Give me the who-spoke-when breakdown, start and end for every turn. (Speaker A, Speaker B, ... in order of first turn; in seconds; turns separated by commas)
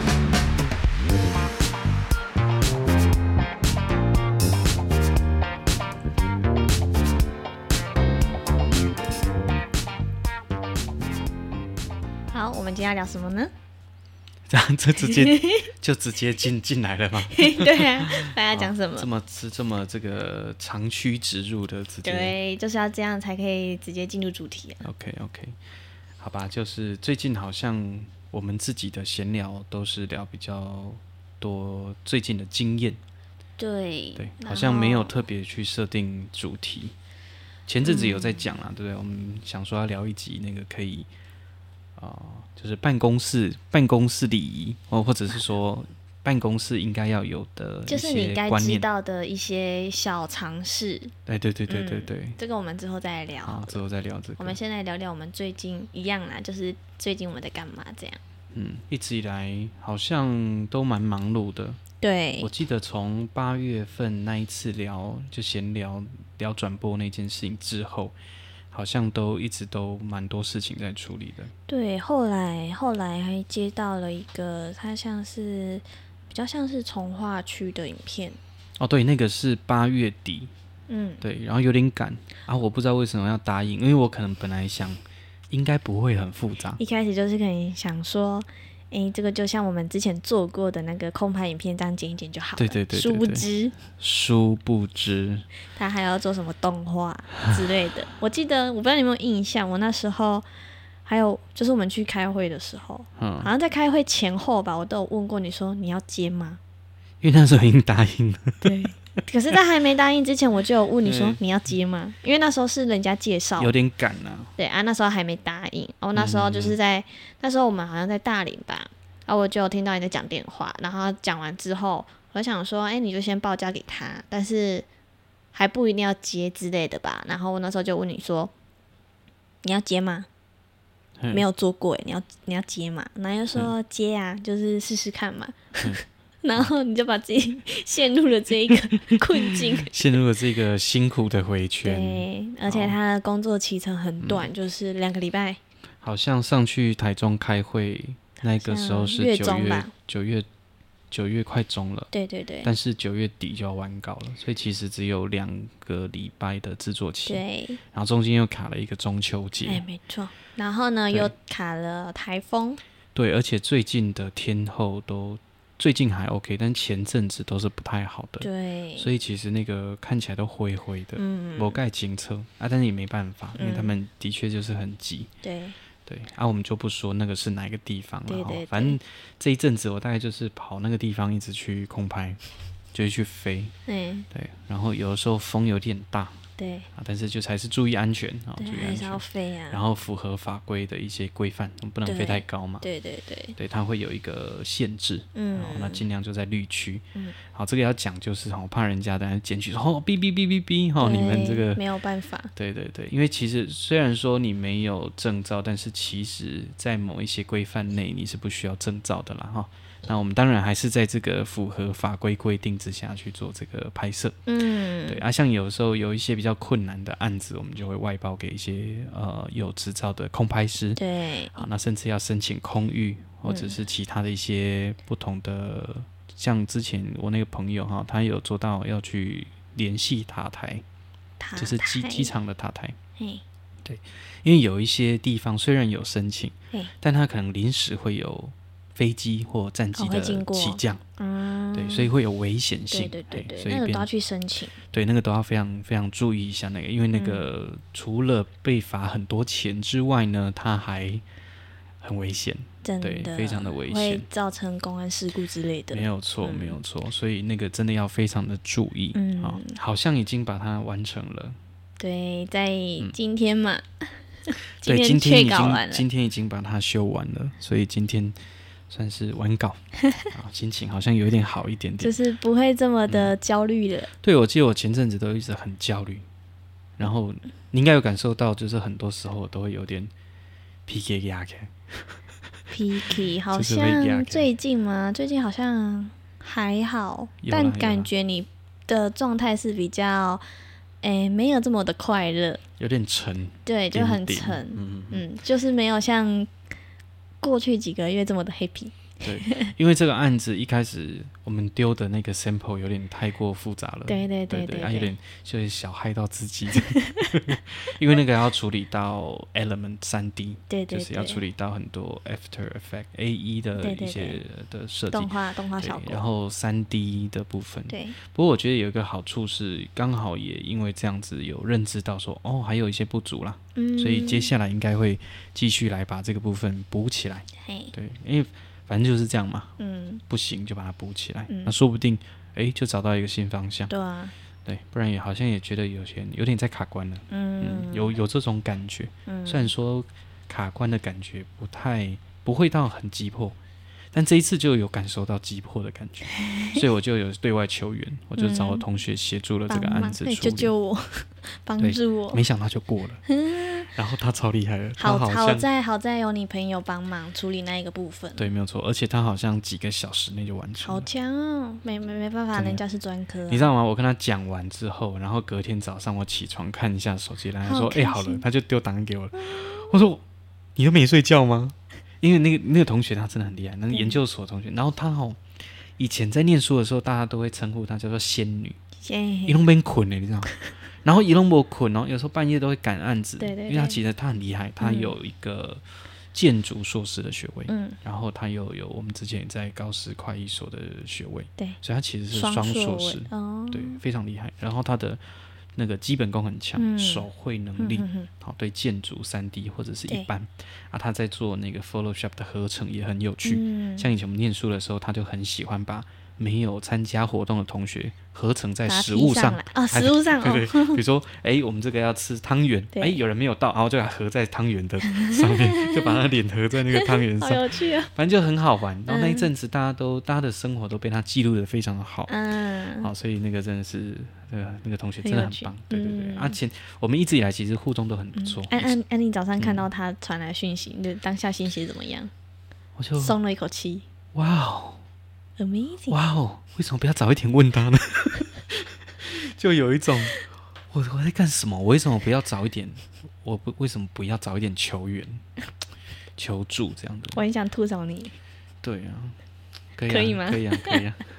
Speaker A: 12.3-13.5, Speaker B: 14.5-22.4, Speaker A: 15.0-15.7, Speaker A: 17.3-19.1, Speaker A: 22.0-24.8, Speaker B: 24.8-25.6, Speaker B: 26.2-33.0, Speaker A: 33.6-35.1, Speaker B: 34.2-37.0, Speaker B: 37.7-41.1, Speaker A: 37.8-38.4, Speaker B: 42.0-48.9, Speaker A: 47.9-51.1, Speaker B: 51.3-52.4, Speaker A: 51.7-53.8, Speaker B: 53.5-54.6, Speaker A: 54.4-58.2, Speaker B: 58.5-61.8, Speaker A: 62.0-62.5, Speaker B: 62.4-68.2, Speaker B: 68.7-71.5, Speaker A: 71.7-78.4, Speaker B: 78.8-80.5, Speaker A: 80.9-81.2, Speaker B: 81.2-86.8, Speaker A: 86.8-93.8, Speaker B: 92.6-95.5, Speaker A: 95.8-100.5, Speaker A: 101.1-106.6, Speaker B: 103.2-103.5, Speaker B: 107.2-108.8, Speaker A: 108.6-113.7, Speaker B: 111.0-111.4, Speaker B: 113.6-114.5, Speaker A: 114.6-124.9, Speaker B: 116.2-116.8, Speaker A: 125.5-128.5, Speaker A: 129.6-130.3, Speaker B: 131.2-131.4, Speaker A: 131.3-140.1, Speaker B: 139.5-143.0, Speaker A: 141.8-145.6, Speaker B: 144.2-144.5, Speaker B: 146.0-150.5, Speaker A: 148.5-149.9, Speaker B: 151.1-152.1, Speaker A: 152.1-152.7, Speaker B: 152.6-159.8, Speaker A: 157.2-157.8, Speaker A: 159.7-162.8, Speaker B: 163.2-175.3, Speaker A: 168.4-169.1, Speaker A: 171.2-171.8, Speaker A: 173.6-174.0, Speaker A: 175.4-175.8, Speaker B: 176.1-182.4, Speaker A: 178.3-179.0, Speaker B: 182.9-183.7, Speaker A: 183.9-184.3, Speaker B: 184.3-186.4, Speaker A: 186.6-186.9, Speaker B: 186.9-192.8, Speaker A: 188.6-189.8, Speaker A: 192.1-193.6, Speaker B: 193.6-201.8, Speaker A: 195.3-196.0, Speaker A: 201.0-202.5, Speaker B: 202.6-214.4, Speaker A: 214.5-215.2, Speaker B: 215.1-221.0, Speaker A: 221.0-221.7, Speaker B: 221.5-230.8, Speaker A: 223.5-223.8, Speaker A: 231.4-232.3, Speaker B: 231.6-233.0, Speaker A: 233.2-233.4, Speaker B: 233.8-241.0, Speaker A: 239.9-242.1, Speaker B: 241.7-244.1, Speaker A: 242.9-244.8, Speaker B: 244.9-251.2, Speaker A: 247.1-247.4, Speaker B: 252.0-254.2, Speaker A: 252.8-256.8, Speaker B: 255.9-261.6, Speaker A: 259.1-259.8, Speaker A: 262.0-266.1, Speaker B: 264.8-268.4, Speaker B: 268.9-272.2, Speaker A: 272.0-274.1, Speaker B: 273.1-273.4, Speaker B: 274.2-276.2, Speaker B: 277.0-280.1, Speaker B: 280.9-282.2, Speaker A: 282.7-290.4, Speaker B: 283.1-284.5, Speaker B: 287.4-288.1, Speaker A: 291.0-292.6, Speaker B: 292.8-295.2, Speaker A: 293.7-296.5, Speaker A: 297.4-299.7, Speaker B: 299.2-329.7, Speaker A: 304.1-305.1, Speaker A: 306.8-307.4, Speaker A: 310.7-311.4, Speaker A: 313.8-314.4, Speaker A: 315.1-316.2, Speaker A: 317.9-318.2, Speaker A: 323.8-324.5, Speaker A: 327.6-327.9, Speaker A: 329.8-330.2, Speaker B: 330.3-333.9, Speaker A: 331.5-331.8, Speaker A: 333.9-334.4, Speaker B: 334.6-343.6, Speaker A: 337.3-338.1, Speaker A: 339.3-339.7, Speaker B: 344.1-350.7, Speaker A: 346.3-346.8, Speaker A: 348.4-348.9, Speaker A: 349.7-352.4, Speaker B: 351.8-353.2, Speaker A: 353.3-353.9, Speaker B: 353.9-355.7, Speaker A: 355.0-358.5, Speaker B: 358.4-361.1, Speaker A: 360.8-363.7, Speaker B: 362.6-362.8, Speaker B: 363.5-370.2, Speaker A: 367.6-368.4, Speaker B: 370.8-375.4, Speaker A: 373.9-374.2, Speaker B: 376.0-378.8, Speaker A: 379.0-379.6, Speaker B: 379.4-385.8, Speaker A: 383.4-384.0, Speaker A: 384.8-385.1, Speaker B: 386.3-395.2, Speaker A: 387.7-388.0, Speaker A: 392.3-394.0, Speaker B: 395.8-422.3, Speaker A: 396.8-398.3, Speaker A: 403.4-404.1, Speaker A: 408.9-411.0, Speaker A: 412.9-413.2, Speaker A: 415.0-416.2, Speaker A: 416.9-418.1, Speaker A: 419.1-419.5, Speaker A: 422.3-423.1, Speaker B: 423.0-428.9, Speaker A: 425.2-426.6, Speaker A: 428.4-432.3, Speaker B: 429.6-429.9, Speaker B: 432.9-433.4, Speaker A: 433.2-434.1, Speaker B: 434.3-435.0, Speaker A: 435.6-436.2, Speaker B: 436.1-445.4, Speaker B: 446.4-447.4, Speaker A: 447.3-448.4, Speaker B: 448.8-449.4, Speaker B: 449.9-451.2, Speaker A: 450.1-451.0